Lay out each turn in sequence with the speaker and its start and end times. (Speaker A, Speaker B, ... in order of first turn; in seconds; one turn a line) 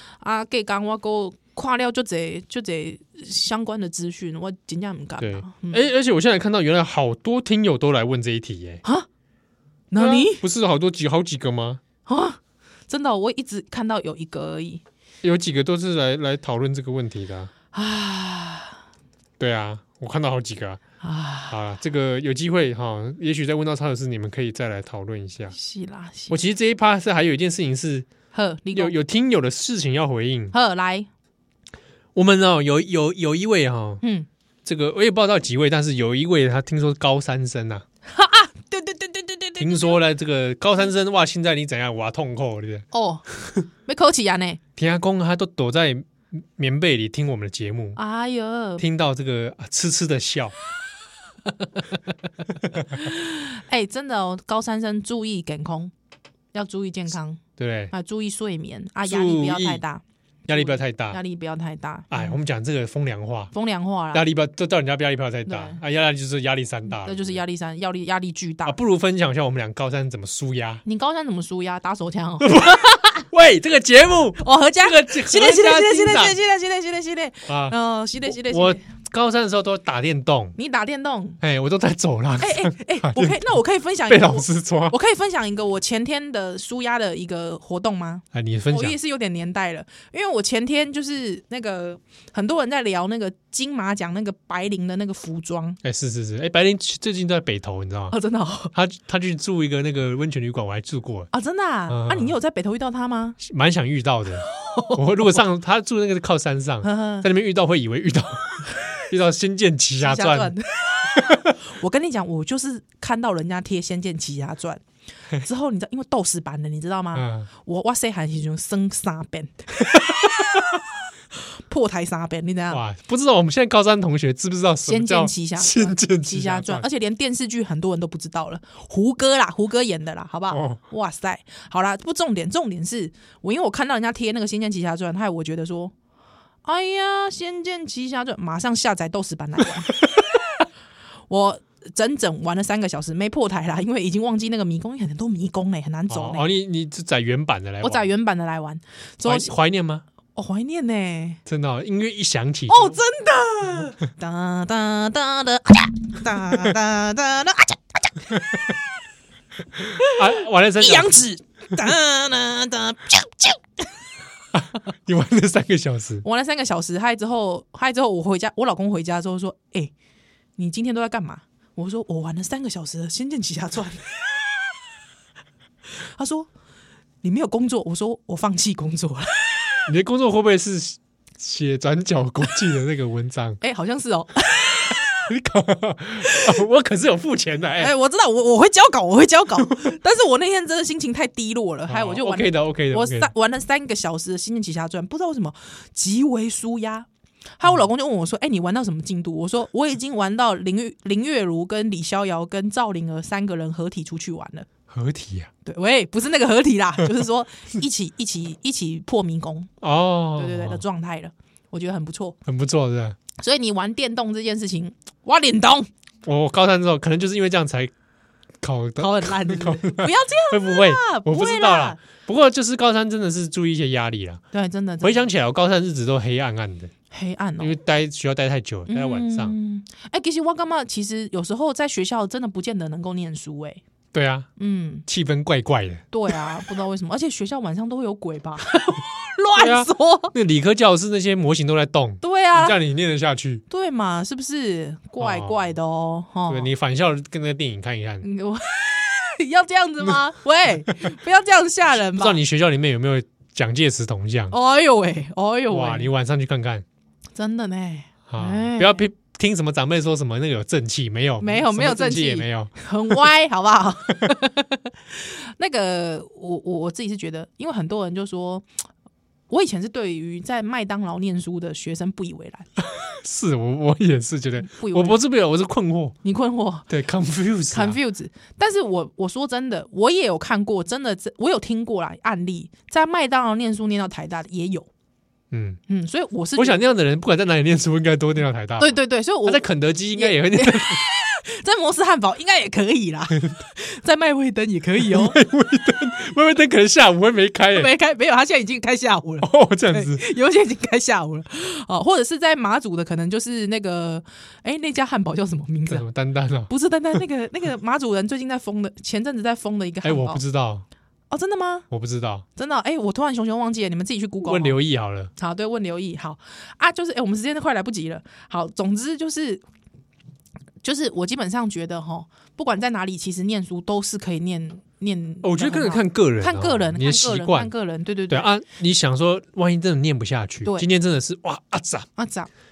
Speaker A: 0.2-5.8
Speaker B: 5.2-8.8
Speaker A: 9.9-10.4
Speaker B: 10.0-11.8
Speaker A: 12.1-14.8
Speaker B: 15.2-17.5
Speaker A: 17.7-18.8
Speaker B: 19.4-20.8
Speaker A: 21.0-21.6
Speaker B: 21.5-25.5
Speaker A: 25.5-26.4
Speaker B: 26.3-28.1
Speaker A: 28.3-28.9
Speaker B: 28.7-30.5
Speaker A: 30.5-31.1
Speaker B: 32.1-34.0
Speaker A: 34.0-34.3
Speaker B: 34.6-37.8
Speaker A: 38.1-40.0
Speaker B: 39.6-43.6
Speaker A: 42.9-43.2
Speaker A: 43.8-44.6
Speaker B: 44.8-48.0
Speaker A: 48.0-48.8
Speaker B: 48.8-50.5
Speaker A: 52.8-55.9
Speaker A: 56.5-62.4
Speaker B: 57.6-57.9
Speaker B: 59.1-59.8
Speaker B: 60.5-61.2
Speaker B: 62.1-63.5
Speaker A: 63.5-64.2
Speaker B: 64.1-67.4
Speaker A: 65.5-65.8
Speaker A: 66.9-68.8
Speaker B: 68.6-70.8
Speaker A: 70.8-73.3
Speaker B: 72.4-76.3
Speaker A: 74.4-78.8
Speaker B: 77.5-80.5
Speaker A: 80.6-81.4
Speaker B: 81.4-83.5
Speaker A: 82.4-95.8
Speaker B: 84.1-84.9
Speaker B: 88.3-89.0
Speaker B: 95.8-98.1
Speaker A: 98.1-98.7
Speaker B: 98.7-101.3
Speaker A: 101.3-103.4
Speaker B: 101.9-102.3
Speaker B: 103.4-110.5
Speaker A: 104.5-105.4
Speaker A: 106.8-107.3
Speaker A: 110.0-114.8
Speaker B: 111.1-111.5
Speaker A: 115.3-120.9
Speaker B: 117.1-117.5
Speaker B: 120.0-120.3
Speaker A: 121.7-122.8
Speaker B: 122.7-126.8
Speaker A: 124.8-135.9
Speaker B: 130.5-130.8
Speaker A: 136.6-140.2
Speaker A: 141.3-146.5
Speaker B: 146.1-148.1
Speaker A: 147.8-149.5
Speaker B: 149.2-150.0
Speaker A: 150.3-151.4
Speaker B: 151.4-153.0
Speaker A: 152.7-158.7
Speaker A: 159.8-163.6
Speaker B: 160.0-161.1
Speaker B: 164.5-166.2
Speaker A: 166.2-169.9
Speaker A: 170.6-174.2
Speaker A: 176.1-176.5
Speaker A: 177.2-179.8
Speaker B: 179.9-183.6
Speaker A: 183.6-185.3
Speaker B: 185.3-187.9
Speaker A: 186.2-186.6
Speaker A: 187.8-197.1
Speaker B: 189.6-189.8
Speaker B: 191.9-193.3
Speaker A: 197.6-204.7
Speaker B: 204.9-205.5
Speaker A: 205.6-209.7
Speaker B: 209.8-210.8
Speaker A: 210.3-212.4
Speaker B: 212.4-213.2
Speaker A: 213.4-215.9
Speaker B: 216.2-217.9
Speaker B: 218.6-224.4
Speaker A: 219.0-222.0
Speaker A: 224.5-225.3
Speaker B: 225.0-226.9
Speaker A: 227.1-227.8
Speaker B: 227.6-229.5
Speaker A: 228.9-233.8
Speaker B: 234.1-234.5
Speaker A: 234.6-235.1
Speaker B: 235.1-236.4
Speaker A: 236.1-240.3
Speaker B: 239.6-243.6
Speaker A: 242.2-242.8
Speaker A: 243.7-246.7
Speaker B: 245.2-245.6
Speaker B: 246.5-248.3
Speaker A: 248.2-252.4
Speaker B: 252.0-254.6
Speaker A: 254.5-256.1
Speaker B: 255.7-256.8
Speaker A: 257.4-259.1
Speaker B: 258.3-263.1
Speaker A: 261.4-268.6
Speaker A: 269.5-272.7
Speaker B: 272.8-276.2
Speaker A: 274.6-275.2
Speaker A: 276.2-276.9
Speaker B: 276.9-278.0
Speaker A: 277.7-284.9
Speaker B: 285.5-285.8
Speaker A: 285.9-286.8
Speaker B: 286.6-291.0
Speaker A: 288.8-289.6
Speaker A: 290.1-295.4
Speaker B: 295.0-297.9
Speaker A: 297.7-306.1
Speaker B: 299.4-300.2
Speaker B: 305.9-307.2
Speaker A: 306.7-310.4
Speaker B: 310.0-310.8
Speaker A: 311.3-311.9
Speaker B: 311.9-312.4
Speaker A: 312.6-314.8
Speaker B: 314.4-315.3
Speaker A: 315.4-319.6
Speaker A: 320.8-328.5
Speaker B: 325.4-327.7
Speaker B: 328.3-332.1
Speaker A: 332.1-332.5